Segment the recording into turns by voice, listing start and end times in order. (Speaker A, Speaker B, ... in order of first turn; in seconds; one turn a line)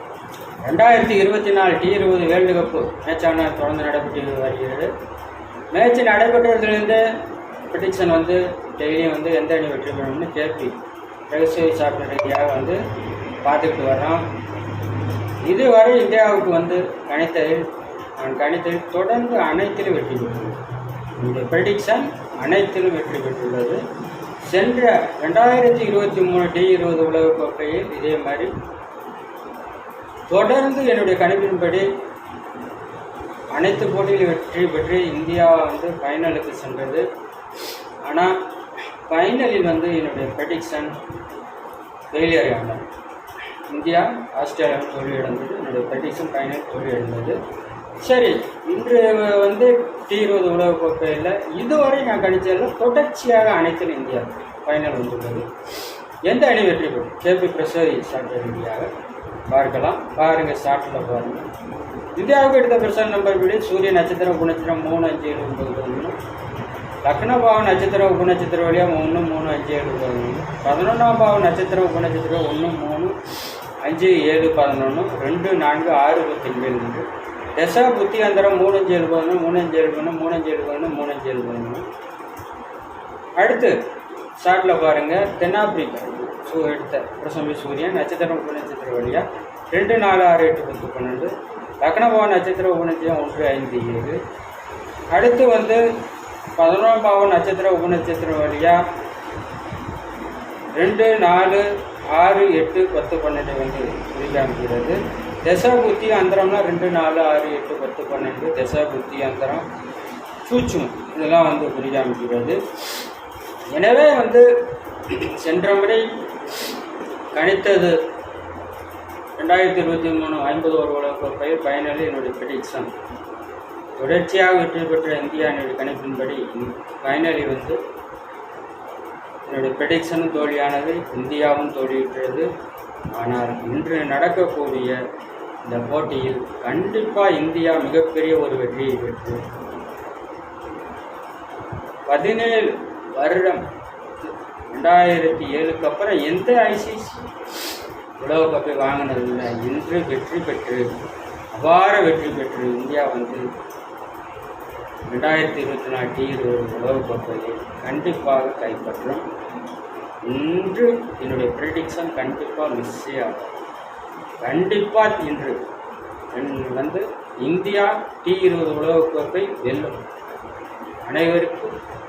Speaker A: 0.6-4.9
Speaker A: 5.7-10.8
Speaker A: 11.3-12.8
Speaker A: 13.4-14.3
Speaker A: 15.4-20.6
Speaker A: 21.2-23.8
Speaker A: 24.5-28.5
Speaker A: 30.3-31.9
Speaker A: 33.5-37.1
Speaker A: 38.0-38.4
Speaker A: 39.1-41.0
Speaker A: 42.1-42.9
Speaker A: 43.7-47.4
Speaker A: 48.0-55.5
Speaker A: 56.3-58.9
Speaker A: 59.5-61.5
Speaker A: 62.2-66.2
Speaker A: 67.0-73.2
Speaker A: 73.8-81.9
Speaker A: 83.4-83.8
Speaker A: 84.4-94.2
Speaker A: 95.1-95.8
Speaker A: 96.6-98.8
Speaker A: 100.8-109.7
Speaker A: 110.5-113.0
Speaker A: 113.7-114.5
Speaker A: 115.1-116.1
Speaker A: 117.3-118.0
Speaker A: 119.4-122.9
Speaker A: 124.0-127.8
Speaker A: 129.4-132.5
Speaker A: 133.1-135.0
Speaker A: 135.7-139.4
Speaker A: 142.1-143.7
Speaker A: 144.2-147.2
Speaker A: 148.2-150.9
Speaker A: 151.5-153.4
Speaker A: 155.1-159.3
Speaker A: 160.3-163.6
Speaker A: 164.4-165.6
Speaker A: 166.3-170.0
Speaker A: 171.1-171.7